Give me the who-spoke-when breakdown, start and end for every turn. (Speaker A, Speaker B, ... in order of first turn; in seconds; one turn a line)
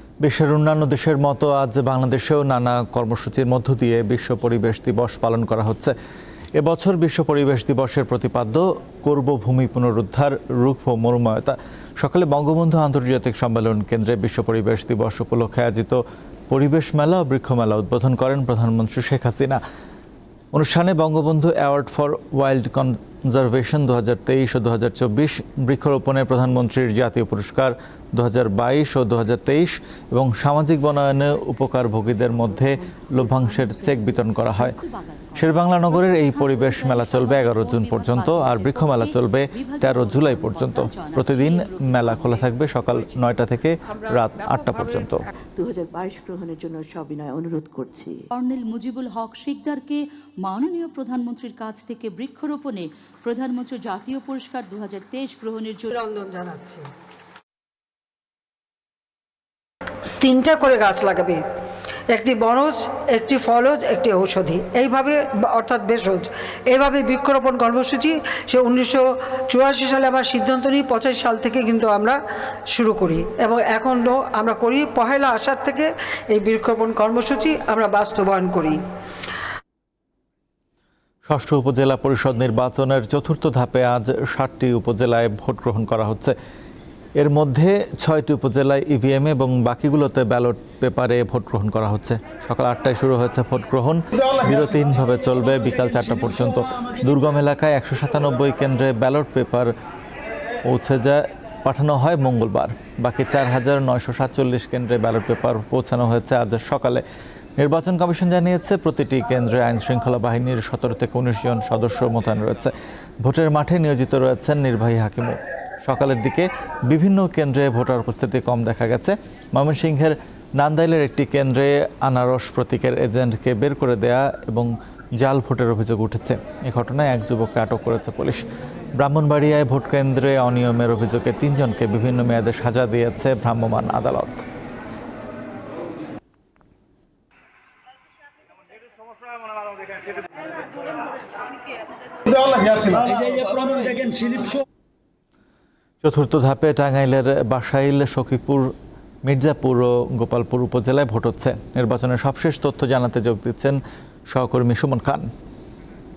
Speaker A: 0.2-5.9
Speaker A: 6.6-19.6
Speaker A: 20.5-34.8
Speaker B: 32.3-42.8
Speaker A: 35.4-45.2
Speaker C: 45.6-48.2
Speaker B: 48.3-56.0
Speaker D: 55.9-56.9
Speaker D: 60.2-61.4
Speaker D: 62.1-72.2
Speaker D: 72.7-78.8
Speaker A: 81.3-86.3
Speaker A: 87.2-99.7
Speaker A: 100.7-107.0
Speaker A: 107.6-128.4
Speaker A: 129.0-134.4
Speaker A: 146.0-148.7
Speaker A: 149.2-153.8
Speaker A: 154.3-155.3